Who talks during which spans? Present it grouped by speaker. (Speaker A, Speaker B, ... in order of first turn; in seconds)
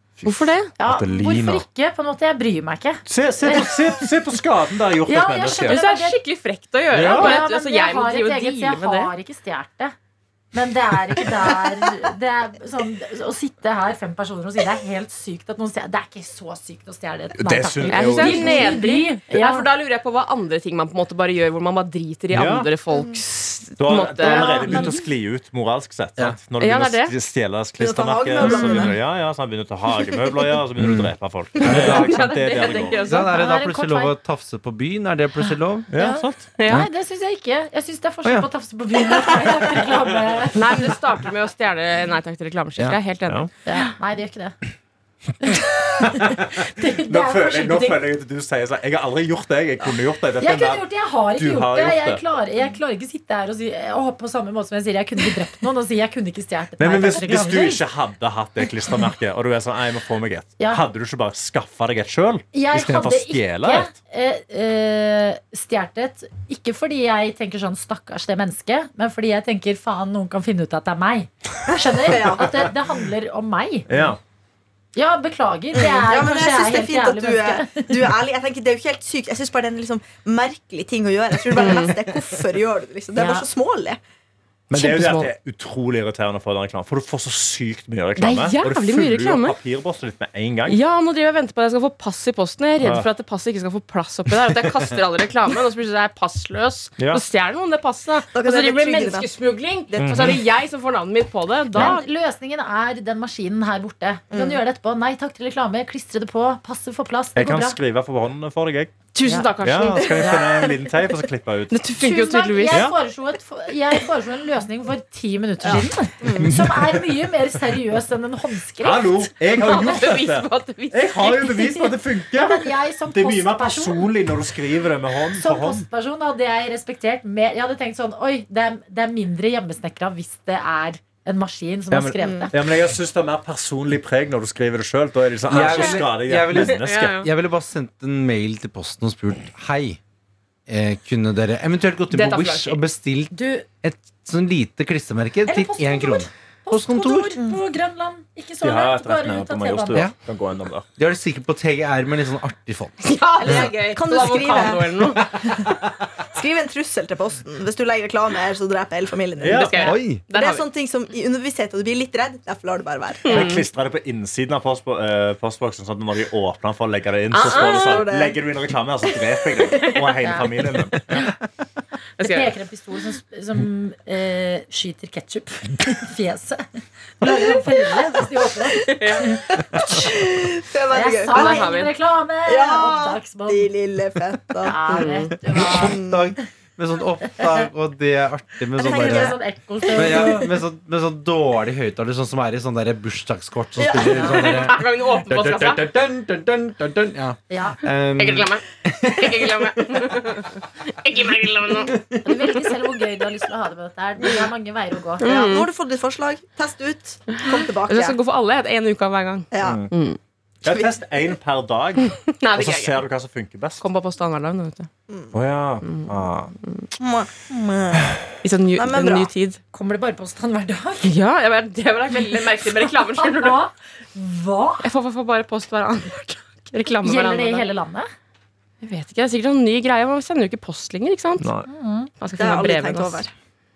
Speaker A: 0.2-0.5, 3.1-5.8, 6.9-7.4, 17.4-18.8, 22.3-22.7, 23.8-33.2, 35.9-36.5, 47.1-52.2, 56.8-63.9, 73.9-74.2, 84.7-90.8, 92.8-93.1, 97.0-97.2, 100.0-100.4, 107.4-108.9, 109.6-111.9, 112.7-113.0, 116.4-117.0, 118.8-125.8, 131.9-137.2, 148.6-150.8, 159.4-160.0, 163.3-171.3, 209.6-209.9, 210.6-213.8, 215.3-216.5, 231.4-231.7
Speaker B: 0.2-0.7, 5.7-9.1, 17.9-24.9, 26.6-27.1, 31.6-33.3, 36.6-36.9, 40.5-43.8, 81.6-82.0, 84.7-85.3, 88.2-89.6, 90.7-102.1, 109.1-110.3, 111.7-112.8, 119.6-121.5, 135.5-137.3, 142.1-142.8, 153.0-155.3, 159.5-160.6, 163.3-163.6, 167.3-168.1, 172.2-172.5, 179.0-179.2, 181.3-181.9, 184.9-185.3, 194.1-195.9, 198.2-201.9, 205.2-205.7, 207.4-210.2, 212.1-213.0, 213.8-214.9, 215.8-216.9, 218.4-219.6, 221.0-223.6, 224.8-227.6, 228.8-231.5, 232.2-233.2
Speaker C: 0.8-4.0, 5.1-6.2, 7.0-9.9, 10.5-19.7, 24.2-25.1, 28.4-28.9, 33.1-34.1, 36.0-40.8, 43.6-44.6, 45.4-48.0, 50.4-57.8, 62.5-74.1, 74.9-78.1, 83.2-83.5, 101.7-107.8, 109.2-110.4, 112.0-119.9, 121.3-124.1, 125.3-132.5, 143.3-143.7, 145.4-150.0, 170.2-170.5, 172.2-176.6, 177.2-180.1, 180.9-183.7, 184.6-186.0, 188.8-190.5, 197.5-197.8, 202.2-205.2, 219.7-221.1, 222.8-224.9, 227.0-228.1, 231.7-232.1
Speaker D: 0.9-1.6, 30.8-31.1, 31.6-32.2, 33.1-35.9, 135.5-140.0, 140.7-147.4, 151.0-153.7, 159.8-160.2, 185.5-189.4, 189.9-200.3, 201.6-202.3
Speaker E: 22.9-23.2, 27.8-29.0, 30.0-30.5, 72.0-72.7, 75.7-84.0, 98.3-99.3, 99.9-100.4, 104.3-104.6, 110.0-110.7, 115.6-116.6, 132.2-132.5, 153.4-155.8, 156.3-163.5, 167.4-168.5, 169.1-169.9, 177.2-178.0, 178.9-181.7, 182.4-185.1, 185.7-186.2, 188.8-190.3, 193.8-194.7, 205.2-208.2, 209.5-209.8, 210.7-211.0, 215.1-215.3, 217.0-218.1, 218.7-219.3, 232.4-233.3